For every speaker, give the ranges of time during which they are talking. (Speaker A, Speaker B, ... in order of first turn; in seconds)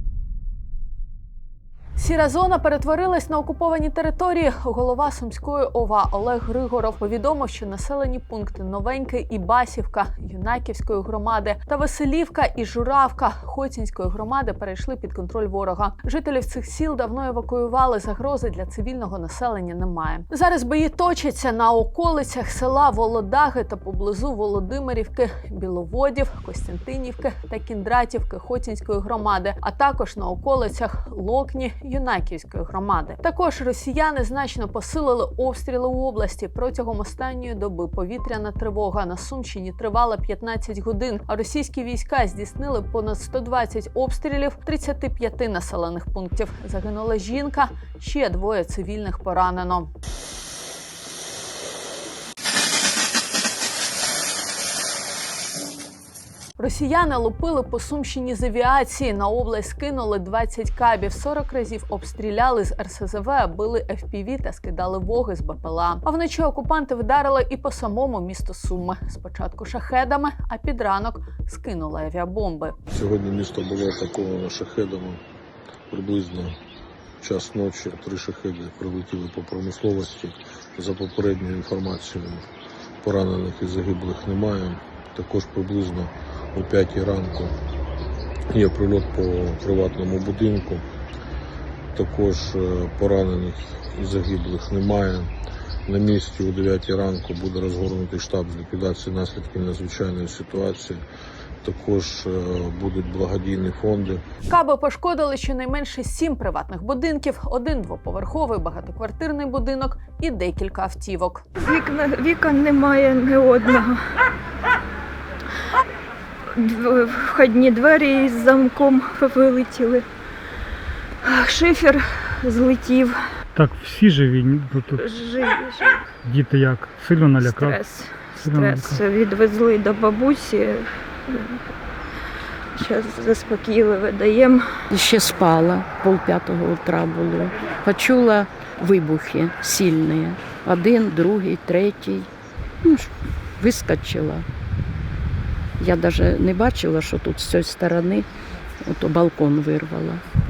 Speaker A: 2.0-49.9, 56.6-72.8, 104.5-111.5
Speaker B: 72.9-75.2, 75.9-76.5, 77.2-82.5, 83.0-87.6, 88.5-90.8, 91.9-95.3, 95.9-101.0, 101.6-104.2
Speaker C: 111.6-114.1, 116.5-120.1, 121.2-123.2, 124.9-126.1, 127.1-131.6, 132.7-134.8
Speaker D: 123.5-124.9, 126.2-127.8, 128.4-129.0
Speaker E: 134.9-142.3, 142.8-144.5, 145.8-148.3, 148.8-150.2